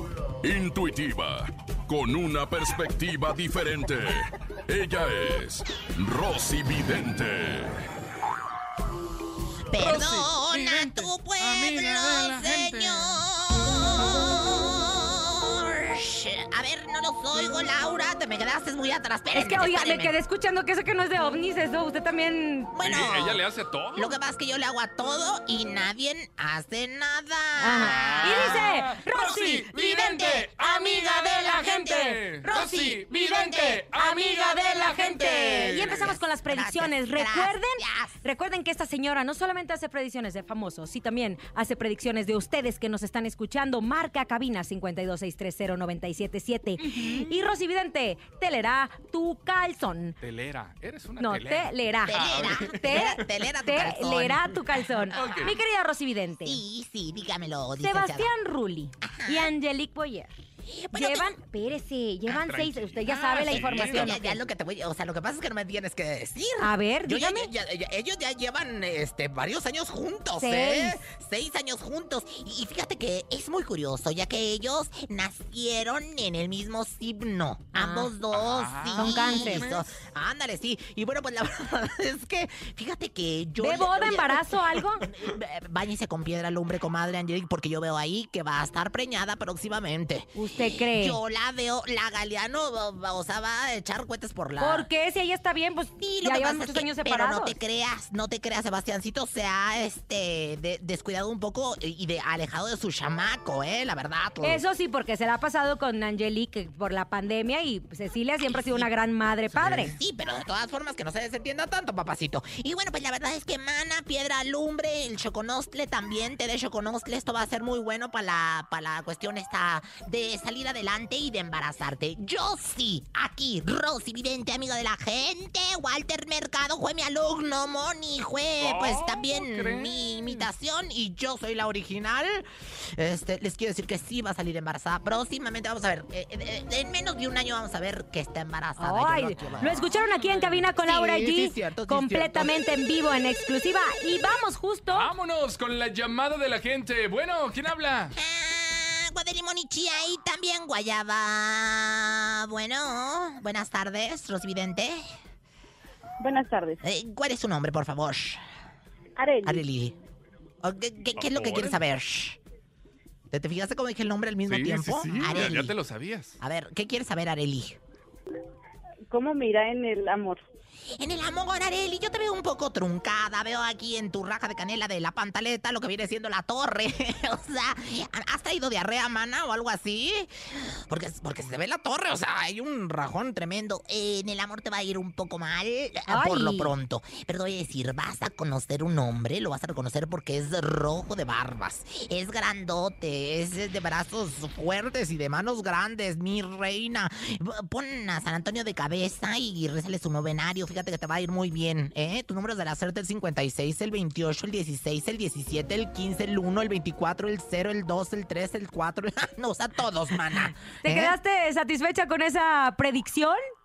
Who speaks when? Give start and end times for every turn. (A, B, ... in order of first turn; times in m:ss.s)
0:00.4-0:07.8 A
0:09.7-0:20.2 B
0:09.7-0:13.2 C
0:19.3-0:22.7 D
0:22.7-0:33.5 B
0:22.8-0:24.1 C
0:27.6-0:30.6 D
0:27.8-0:36.2 C
0:31.4-0:50.2 D
0:35.6-0:38.2 B
0:47.0-0:47.3 B
0:50.2-0:53.2 C
0:51.2-0:56.6 D
0:52.1-0:55.6 B
0:55.1-0:55.6 C
0:56.4-0:58.3 B
0:57.8-1:00.4 D
0:59.0-0:59.5 B
1:00.6-1:01.4 B
1:00.9-1:04.4 D
1:02.3-1:04.2 C
1:03.4-1:34.9 B
1:06.6-1:07.5 D
1:10.4-1:11.0 D
1:17.7-1:18.1 D
1:18.3-1:19.9 C
1:19.0-1:19.7 D
1:23.6-1:25.0 D
1:30.4-1:31.2 D
1:34.6-1:37.6 D
1:36.0-1:44.6 B
1:44.4-1:49.9 D
1:48.4-1:48.9 B
1:49.6-2:22.5 B
2:08.6-2:10.2 C
2:18.8-2:25.1 D
2:24.9-2:28.2 C
2:28.2-2:35.0 B
2:36.2-2:36.8 E
2:36.8-2:38.4 B
2:39.2-2:39.6 E
2:39.4-2:40.0 B
2:40.6-2:42.4 B
2:41.2-2:41.8 C
2:43.3-2:45.8 B
2:44.5-2:46.4 C
2:46.4-2:47.8 B
2:49.1-2:50.4 E
2:51.0-3:31.2 B
3:06.1-3:06.7 D
3:30.8-3:33.4 D